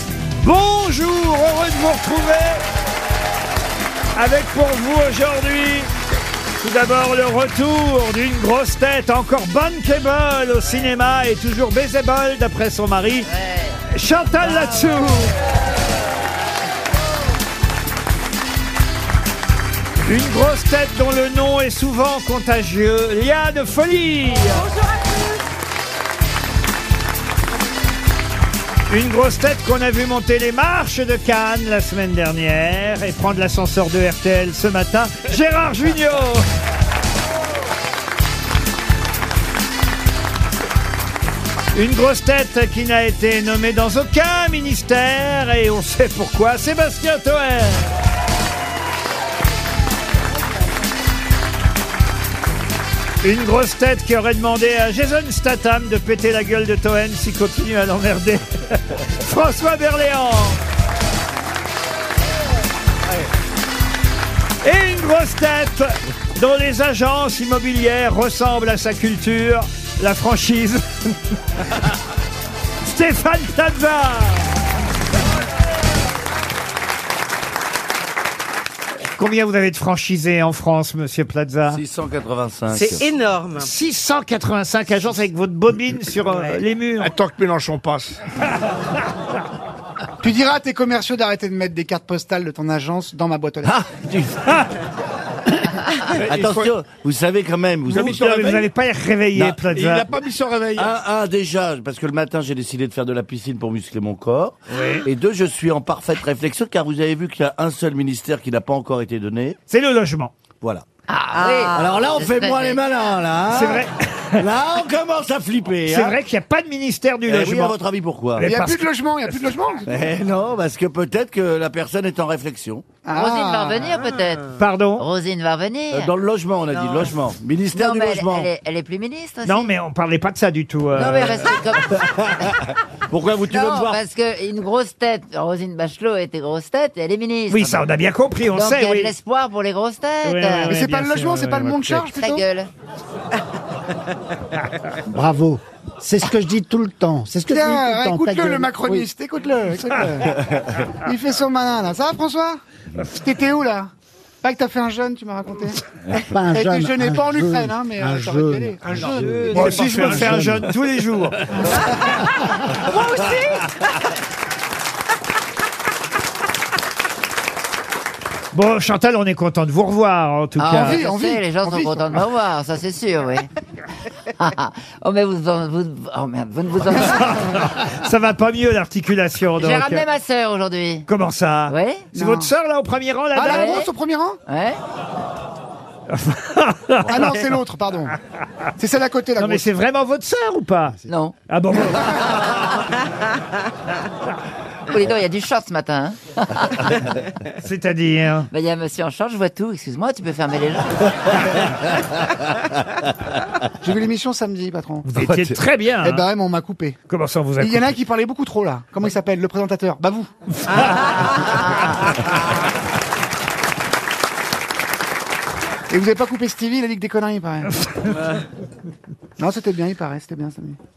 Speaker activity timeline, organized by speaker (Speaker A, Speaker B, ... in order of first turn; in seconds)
Speaker A: 0.4-2.6, 4.2-5.9, 6.6-13.3, 13.9-15.3, 20.0-24.7, 28.9-36.5, 41.7-47.9, 53.2-60.6, 64.6-71.4, 72.8-74.5, 79.1-81.8, 83.5-87.1, 97.9-100.1, 109.7-110.3, 113.5-114.5, 115.9-117.8, 118.4-119.5, 124.6-125.0, 129.4-131.3, 137.5-139.1, 140.2-142.1, 159.5-161.8, 168.5-171.0, 177.0-180.1, 181.1-183.8, 186.1-187.3, 189.4-192.7, 197.6-198.5, 205.0-206.2, 207.1-207.9
Speaker B: 24.8-25.3, 82.7-83.7, 111.3-112.1, 159.2-160.1, 162.8-163.9
Speaker C: 81.7-83.1, 93.6-94.6, 95.9-98.2, 100.8-109.6, 111.7-113.9, 114.4-116.2, 117.3-118.5, 119.9-122.9, 125.9-128.5, 131.0-134.0
Speaker D: 87.0-88.2, 96.1-96.7, 97.9-98.7, 99.4-100.9, 104.8-105.1, 159.6-160.2
Speaker E: 90.2-93.8, 118.4-119.8, 123.0-124.0, 140.7-142.4, 147.5-153.9, 154.4-155.8, 156.5-159.9, 170.8-172.1, 182.1-182.5, 183.3-184.4, 187.1-188.2, 188.8-189.7, 203.8-205.3, 206.0-207.0, 207.6-211.7, 215.9-217.8, 219.4-220.8
Speaker F: 111.1-112.8, 123.1-126.1, 126.7-127.1, 127.7-129.7, 131.0-132.6, 133.5-137.9, 138.5-140.8, 142.2-142.7, 170.6-173.5, 174.4-177.4, 179.6-181.1, 181.7-182.1, 183.5-183.9, 184.5-184.8, 191.1-191.3, 194.9-197.1, 198.5-201.1
Speaker G: 145.0-149.1, 156.2-160.7